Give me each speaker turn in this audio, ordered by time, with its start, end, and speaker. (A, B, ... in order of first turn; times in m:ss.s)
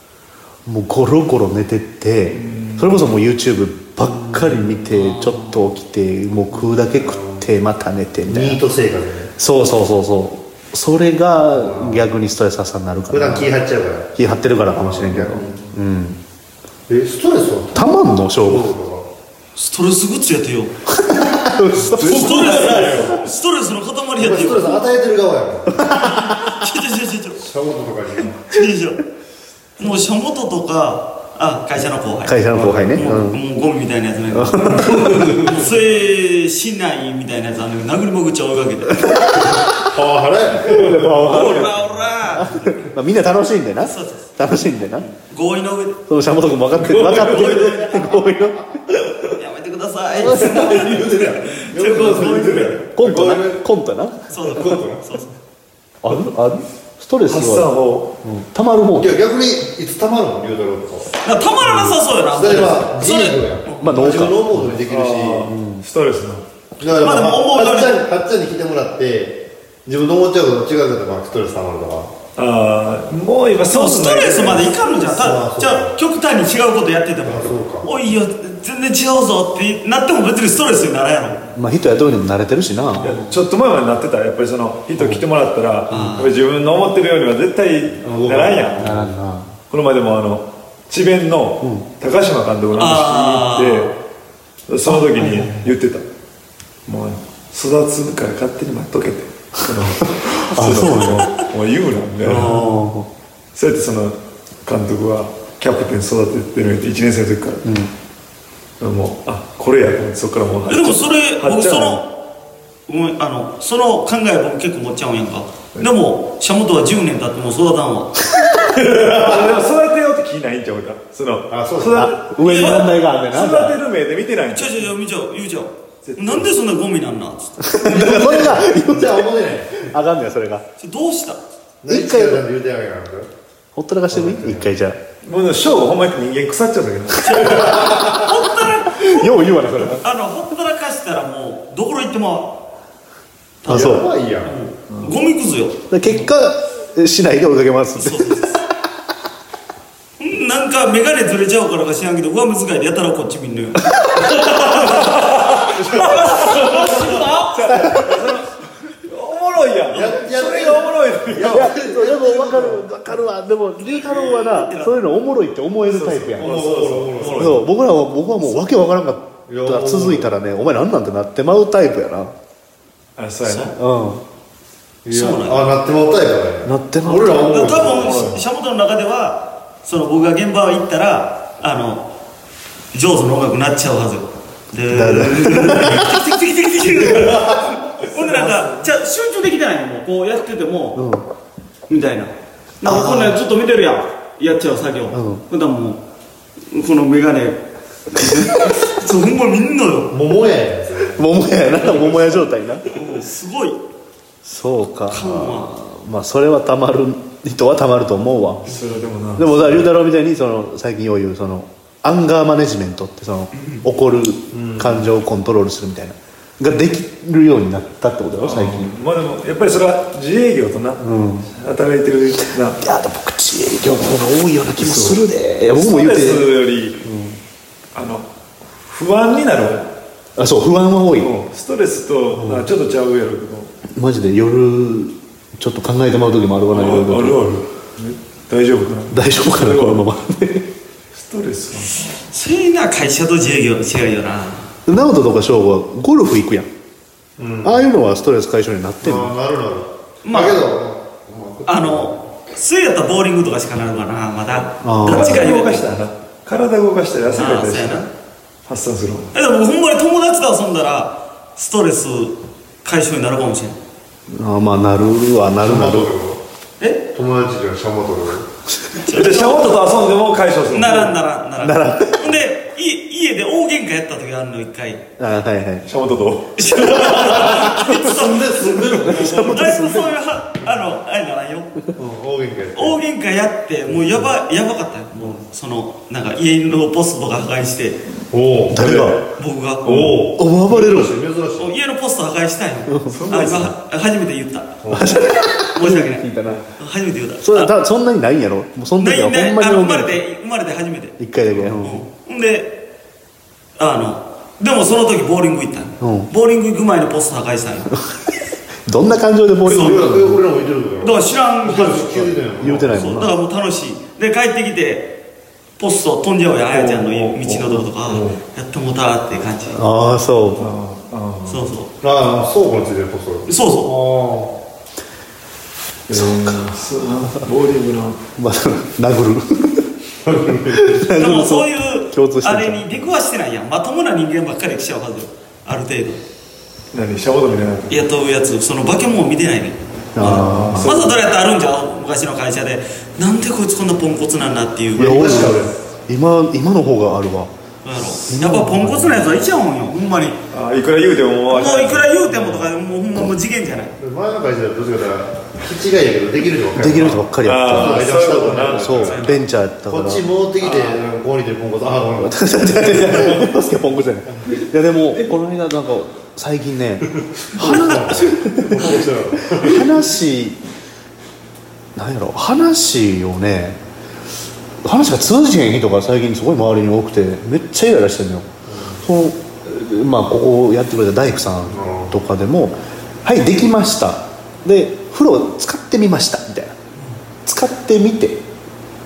0:00.7-0:08.6 A
0:02.4-0:03.0 B
0:04.2-0:05.7 C
0:06.9-0:07.5 D
0:08.3-0:09.3 D
0:09.4-0:13.5 A
0:11.5-0:12.1 D
0:13.1-0:14.2 D
0:14.2-0:16.2 A
0:14.7-0:15.7 D
0:16.9-0:17.9 D
0:17.8-0:18.7 A
0:18.4-0:19.1 D
0:19.6-0:20.7 C
0:20.9-0:22.9 A
0:21.9-0:23.1 D
0:22.0-0:23.1 B
0:22.0-0:24.8 C
0:24.2-0:25.8 D
0:25.7-0:26.6 A
0:26.2-0:27.4 C
0:27.4-0:28.4 D
0:28.4-0:29.0 C
0:29.8-0:39.3 C
0:32.2-0:33.4 A
0:32.5-0:33.2 D
0:34.3-0:35.6 A
0:39.6-0:41.6 D
0:40.6-0:41.7 A
0:41.2-0:42.8 C
0:42.4-0:45.1 A
0:43.8-0:44.4 C
0:45.0-0:46.0 C
0:46.1-0:49.4 A
0:46.8-0:47.9 C
0:46.9-0:47.7 B
0:49.4-0:52.8 C
0:50.2-0:53.6 D
0:50.2-0:50.8 A
0:51.9-0:52.8 B
0:52.9-0:54.3 A
0:54.3-0:55.4 C
0:54.4-0:55.1 D
0:56.0-0:59.2 A
0:57.3-0:58.1 B
0:59.0-1:01.1 D
1:01.2-1:04.3 C
1:02.3-1:05.5 D
1:03.8-1:04.5 A
1:04.5-1:06.5 B
1:05.5-1:05.8 A
1:06.8-1:12.1 D
1:07.0-1:08.0 C
1:12.4-1:14.8 B
1:13.7-1:21.4 C
1:14.9-1:16.0 D
1:17.2-1:17.9 D
1:21.5-1:23.1 A
1:22.9-1:23.4 C
1:23.0-1:29.0 B
1:25.0-1:25.2 A
1:25.9-1:26.3 C
1:28.0-1:29.1 D
1:28.8-1:29.6 A
1:29.7-1:34.0 B
1:31.6-1:31.9 A
1:32.8-1:33.9 C
1:34.7-1:36.1 B
1:34.9-1:35.5 A
1:36.9-1:42.6 B
1:40.5-1:41.3 A
1:42.2-1:42.8 C
1:42.3-1:43.1 A
1:43.5-1:47.6 B
1:47.6-1:47.9 A
1:48.8-1:52.0 B
1:50.7-1:52.1 C
1:52.9-1:58.3 C
1:58.9-1:59.6 D
1:58.9-2:04.9 B
2:01.5-2:02.1 D
2:01.9-2:03.8 A
2:02.4-2:03.0 C
2:04.5-2:07.6 C
2:06.0-2:06.5 B
2:07.6-2:10.6 A
2:07.8-2:09.9 D
2:10.8-2:11.4 C
2:11.8-2:13.3 D
2:11.9-2:12.5 A
2:13.8-2:15.0 A
2:14.1-2:14.7 D
2:15.2-2:17.7 B
2:17.2-2:22.6 C
2:17.6-2:17.9 A
2:18.9-2:20.0 A
2:23.6-2:26.3 C
2:23.7-2:24.1 A
2:23.7-2:24.6 D
2:24.9-2:25.2 B
2:25.9-2:28.6 A
2:28.0-2:28.6 C
2:30.2-2:38.0 C
2:33.9-2:34.2 A
2:35.0-2:41.8 B
2:37.8-2:38.2 A
2:39.9-2:42.8 D
2:41.5-2:46.6 A
2:43.8-2:45.0 C
2:45.9-2:47.7 B
2:46.4-2:47.6 D
2:47.2-2:52.3 A
2:49.5-2:50.3 D
2:53.2-2:53.8 B
2:53.4-2:53.7 C
2:53.7-2:54.2 A
2:55.0-2:58.2 D
2:55.1-2:55.7 C
2:56.6-2:57.7 A
2:57.3-3:02.1 C
2:57.9-2:58.4 B
3:02.9-3:11.0 C
3:04.9-3:06.1 A
3:08.2-3:08.8 B
3:11.0-3:11.3 A
3:11.9-3:16.0 C
3:12.8-3:13.4 A
3:15.1-3:15.5 A
3:16.7-3:20.2 C
3:20.1-3:21.2 D
3:21.1-3:23.1 A
3:22.8-3:23.8 C
3:24.4-3:28.7 A
3:25.1-3:25.8 C
3:28.7-3:29.9 B
3:29.4-3:39.0 A
3:33.5-3:33.8 C
3:38.4-3:42.9 B
3:41.0-3:41.5 A
3:42.8-3:47.4 A
3:44.8-3:47.0 B
3:47.9-3:48.3 B
3:48.8-3:49.9 B
3:50.4-3:51.3 A
3:51.2-3:53.7 B
3:52.3-3:52.7 A
3:54.0-3:57.4 A
3:56.7-4:00.1 B
3:59.1-4:00.7 A
4:01.1-4:02.1 B
4:02.2-4:04.7 C
4:04.9-4:06.7 A
4:07.4-4:07.9 D
4:07.6-4:09.3 A
4:09.0-4:12.2 D
4:10.2-4:10.7 C
4:11.7-4:16.0 C
4:14.8-4:15.5 A
4:15.1-4:18.1 B
4:17.3-4:18.1 C
4:18.7-4:19.3 B
4:19.3-4:23.8 C
4:24.3-4:26.1 A
4:25.6-4:26.4 D
4:26.8-4:27.1 C
4:27.1-4:28.5 D
4:29.0-4:29.8 C
4:29.1-4:31.1 B
4:30.7-4:35.0 C
4:31.6-4:32.4 A
4:35.2-4:35.9 A
4:35.9-4:36.5 B
4:36.6-4:41.7 C
4:36.8-4:39.7 D
4:37.6-4:38.0 A
4:38.8-4:40.2 A
4:42.0-4:43.0 D
4:42.8-4:48.0 C
4:43.9-4:44.3 D
4:48.3-4:49.2 D
4:48.7-4:49.2 A
4:49.3-4:49.9 C
4:49.8-4:50.2 B
4:49.9-4:51.7 D
4:50.3-4:51.2 A
4:51.6-4:54.8 C
4:52.9-4:53.2 A
4:53.1-4:53.8 B
4:54.8-4:55.2 D
4:54.9-4:56.6 A
4:55.7-4:57.7 C
4:57.4-5:00.2 A
4:59.0-5:01.2 C
5:01.2-5:02.0 A
5:01.8-5:02.8 C
5:03.8-5:08.0 C
5:06.0-5:06.3 A
5:08.9-5:10.4 A
5:09.6-5:12.9 D
5:11.0-5:15.2 C
5:12.6-5:13.4 A
5:15.8-5:19.8 C
5:16.7-5:18.4 B
5:19.7-5:20.7 A
5:20.6-5:21.7 B
5:21.5-5:21.9 C
5:22.0-5:24.6 D
5:23.5-5:23.9 C
5:26.1-5:28.2 B
5:28.4-5:29.9 A
5:30.2-5:31.0 D
5:30.7-5:33.1 A
5:31.1-5:36.2 C
5:36.9-5:38.0 B
5:37.9-5:45.4 C
5:40.2-5:41.1 A
5:40.2-5:41.2 B
5:45.0-5:45.8 D
5:45.0-5:47.5 A
5:47.8-5:50.4 C
5:48.2-5:49.4 A
5:50.5-5:52.7 B
5:51.5-5:54.0 C
5:54.0-5:59.4 D
5:56.8-6:00.3 A
5:57.4-5:59.3 B
5:59.1-5:59.4 C
5:59.9-6:04.0 D
6:00.6-6:01.0 B
6:02.2-6:07.1 A
6:07.4-6:09.9 D
6:07.6-6:08.4 C
6:07.6-6:10.6 A
6:12.0-6:13.8 A
6:14.8-6:18.5 A
6:18.7-6:19.0 D
6:19.0-6:26.8 A
6:21.7-6:22.2 D
6:27.4-6:28.4 A